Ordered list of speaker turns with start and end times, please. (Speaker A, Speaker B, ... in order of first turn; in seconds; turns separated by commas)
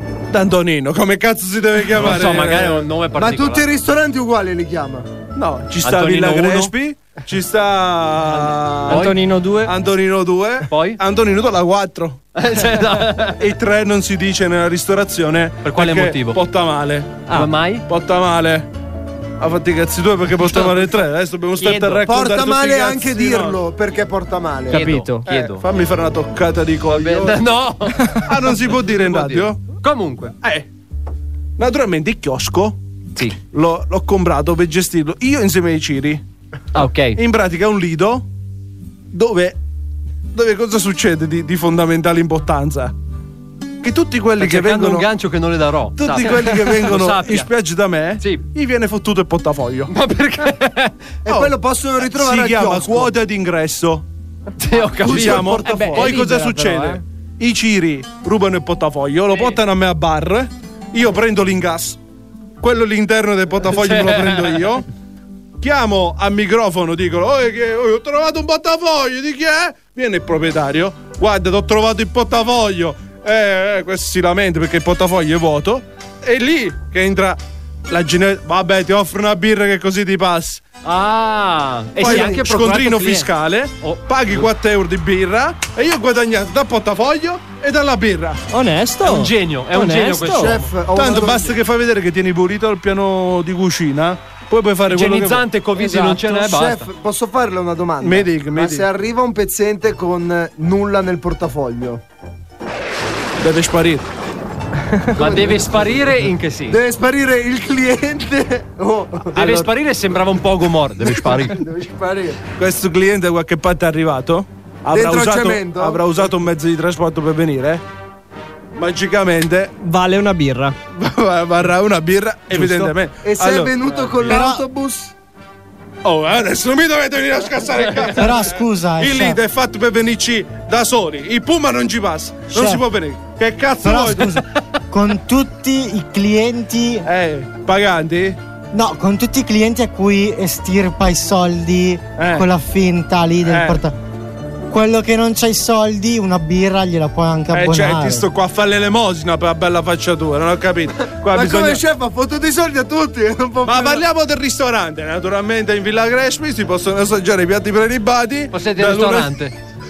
Speaker A: 0.3-2.9, Speaker B: 1.9-3.6, Speaker C: 3.2-5.1, Speaker A: 5.3-12.2, Speaker B: 5.8-6.7, Speaker B: 8.9-9.2, Speaker D: 8.9-9.7, Speaker B: 10.7-11.0, Speaker B: 12.4-13.4, Speaker A: 13.4-17.3, Speaker B: 15.6-16.4, Speaker B: 17.3-17.9, Speaker A: 17.9-18.7, Speaker A: 19.4-23.6, Speaker C: 22.0-24.9, Speaker B: 24.7-25.6, Speaker D: 24.7-25.3, Speaker A: 25.3-27.4, Speaker B: 26.9-28.1, Speaker A: 28.1-29.6, Speaker B: 28.9-30.4, Speaker A: 30.4-30.7, Speaker A: 31.6-32.8, Speaker A: 33.4-36.2, Speaker B: 36.7-37.2, Speaker A: 37.2-38.2, Speaker A: 39.1-39.6, Speaker A: 40.3-42.9, Speaker A: 43.8-45.1, Speaker B: 44.4-47.5, Speaker A: 46.0-49.9, Speaker B: 48.2-48.5, Speaker B: 49.9-51.1, Speaker C: 51.3-53.1, Speaker A: 51.3-54.0, Speaker B: 54.6-55.6, Speaker C: 55.0-56.0, Speaker A: 55.0-62.0, Speaker D: 55.6-57.0, Speaker A: 62.6-64.9, Speaker B: 63.7-64.7, Speaker A: 65.6-80.6, Speaker B: 80.8-83.3, Speaker A: 82.0-88.4, Speaker C: 82.0-82.4, Speaker B: 83.8-84.5, Speaker D: 88.5-90.6, Speaker B: 89.0-90.7, Speaker C: 90.3-91.5, Speaker A: 90.9-95.5, Speaker B: 94.9-96.9, Speaker C: 95.8-102.0, Speaker A: 98.0-98.9, Speaker A: 103.4-104.1, Speaker B: 105.2-106.8, Speaker C: 105.2-109.7, Speaker B: 109.3-111.6, Speaker C: 111.0-112.4, Speaker A: 112.6-117.8, Speaker C: 114.9-116.2, Speaker A: 118.8-119.7, Speaker D: 119.8-120.8, Speaker A: 120.9-124.4, Speaker D: 122.5-122.9, Speaker C: 123.2-125.1, Speaker E: 124.3-124.7, Speaker A: 126.0-134.4, Speaker B: 127.8-128.1, Speaker E: 128.1-129.4, Speaker E: 132.5-132.8, Speaker E: 133.8-137.1, Speaker A: 137.1-138.4, Speaker E: 138.7-144.0, Speaker A: 142.2-142.5, Speaker A: 143.5-143.8, Speaker E: 144.7-148.3, Speaker A: 147.5-151.8, Speaker C: 151.3-154.0, Speaker A: 153.6-159.3, Speaker B: 158.5-159.5